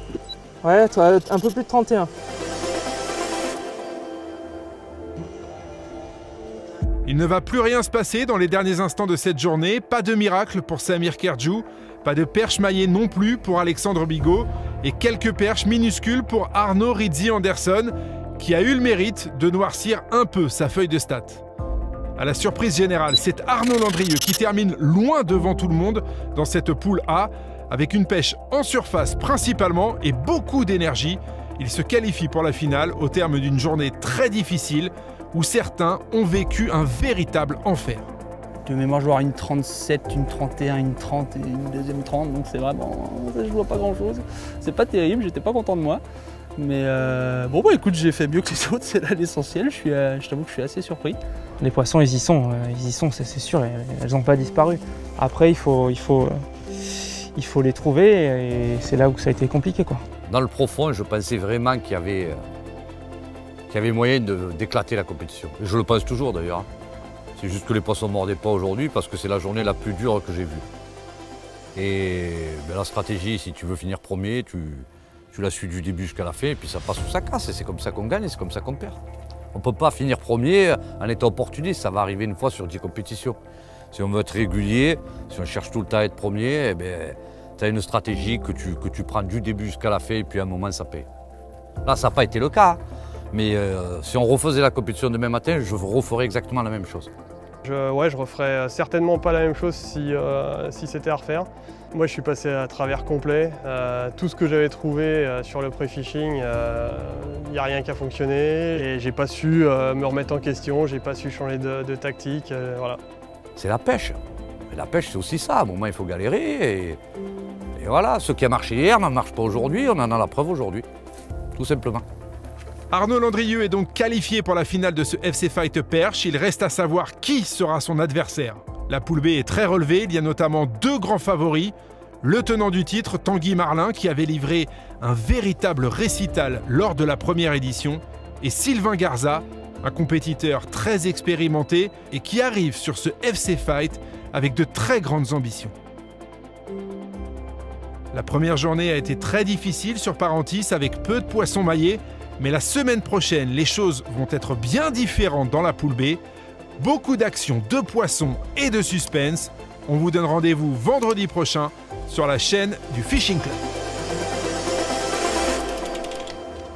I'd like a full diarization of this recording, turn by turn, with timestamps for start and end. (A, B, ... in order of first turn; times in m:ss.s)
0:00.6-0:02.1 A
0:07.0-0:21.4 B
0:22.2-0:38.1 B
0:38.6-0:46.0 C
0:46.6-0:51.2 C
0:51.6-1:00.0 A
1:00.3-1:02.4 D
1:03.7-1:06.7 D
1:07.4-1:10.6 D
1:11.7-1:19.0 D
1:19.5-1:23.4 D
1:23.9-1:31.1 D
1:31.8-1:32.8 D
1:33.3-1:37.1 D
1:37.6-1:53.0 E
1:53.6-1:54.2 D
1:54.7-1:57.0 D
1:57.7-2:00.9 D
2:01.6-2:02.0 D
2:02.9-2:25.7 B
2:28.1-2:36.2 B
2:36.8-2:43.6 B